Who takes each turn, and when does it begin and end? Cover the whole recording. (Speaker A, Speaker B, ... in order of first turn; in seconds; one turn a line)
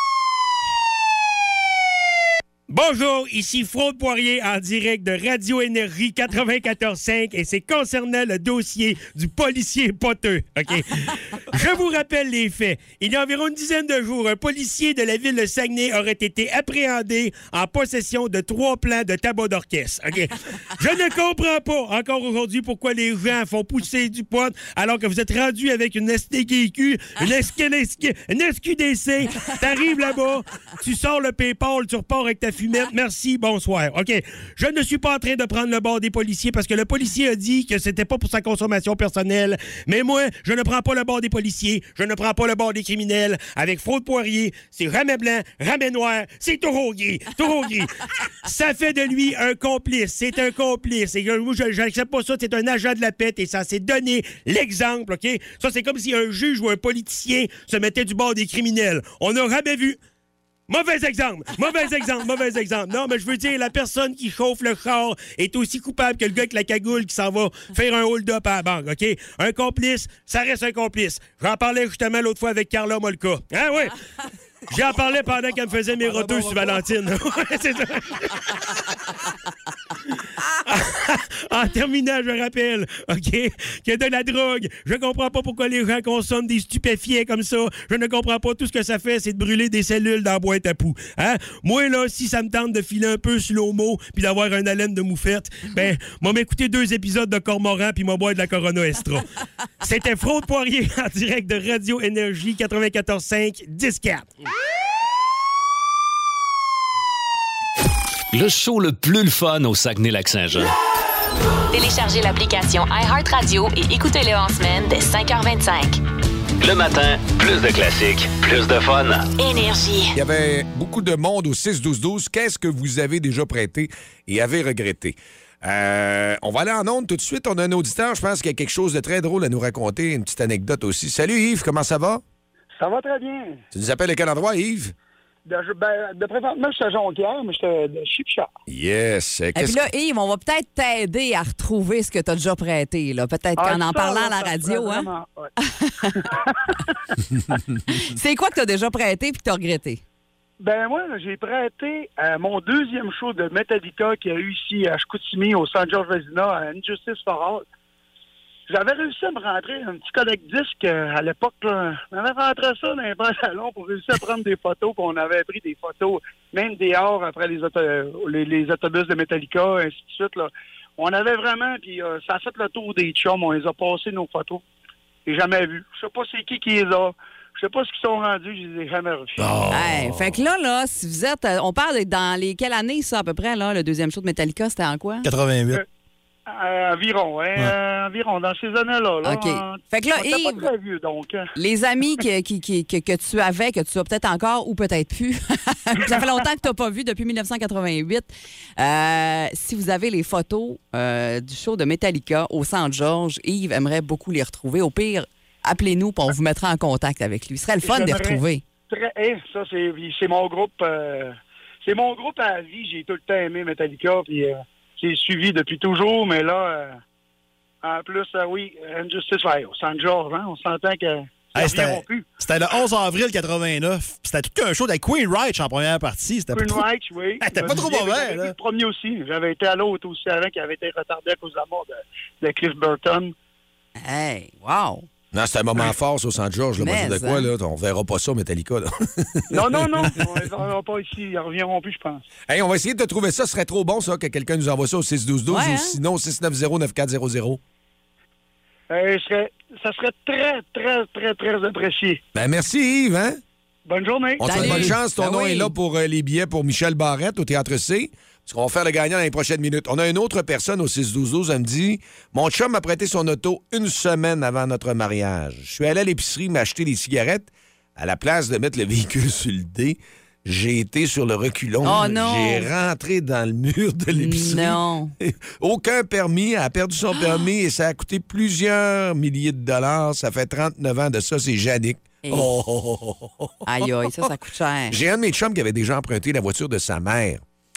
Speaker A: 2.7-60.0
Speaker A: 60.7-74.0
Speaker A: 74.7-78.5
Speaker A: 80.7-99.2
Speaker A: 99.8-104.3
Speaker B: 108.3-110.7
Speaker C: 111.7-116.0
Speaker B: 116.6-119.3
Speaker C: 119.4-120.1
Speaker D: 120.1-132.2
Speaker E: 132.8-133.6
Speaker D: 133.7-134.9
Speaker E: 135.5-138.5
Speaker D: 138.7-139.8
Speaker F: 139.6-146.2
Speaker E: 143.6-145.5
Speaker E: 146.1-147.0
Speaker F: 147.8-150.0
Speaker E: 150.6-157.6
Speaker E: 158.7-174.6
Speaker E: 175.2-179.4
Speaker D: 179.4-180.4
Speaker F: 179.7-185.3
Speaker G: 185.2-185.8
Speaker E: 186.5-191.4
Speaker F: 189.2-190.7
Speaker F: 191.5-208.6
Speaker E: 207.8-217.0
Speaker E: 217.8-222.2
Speaker G: 221.5-226.8
Speaker E: 226.5-233.3
Speaker G: 227.4-228.5
Speaker F: 234.0-235.1
Speaker D: 235.3-240.2
Speaker F: 236.8-237.5
Speaker E: 239.5-242.2
Speaker D: 242.5-247.6
Speaker F: 245.5-246.0
Speaker E: 248.9-252.2
Speaker D: 252.3-253.4
Speaker E: 253.9-254.6
Speaker F: 254.4-255.7
Speaker D: 254.4-283.9
Speaker G: 254.6-254.9
Speaker F: 271.8-272.7
Speaker F: 274.1-275.1
Speaker F: 277.2-277.4
Speaker F: 282.2-282.5
Speaker F: 283.6-284.9
Speaker D: 284.9-287.4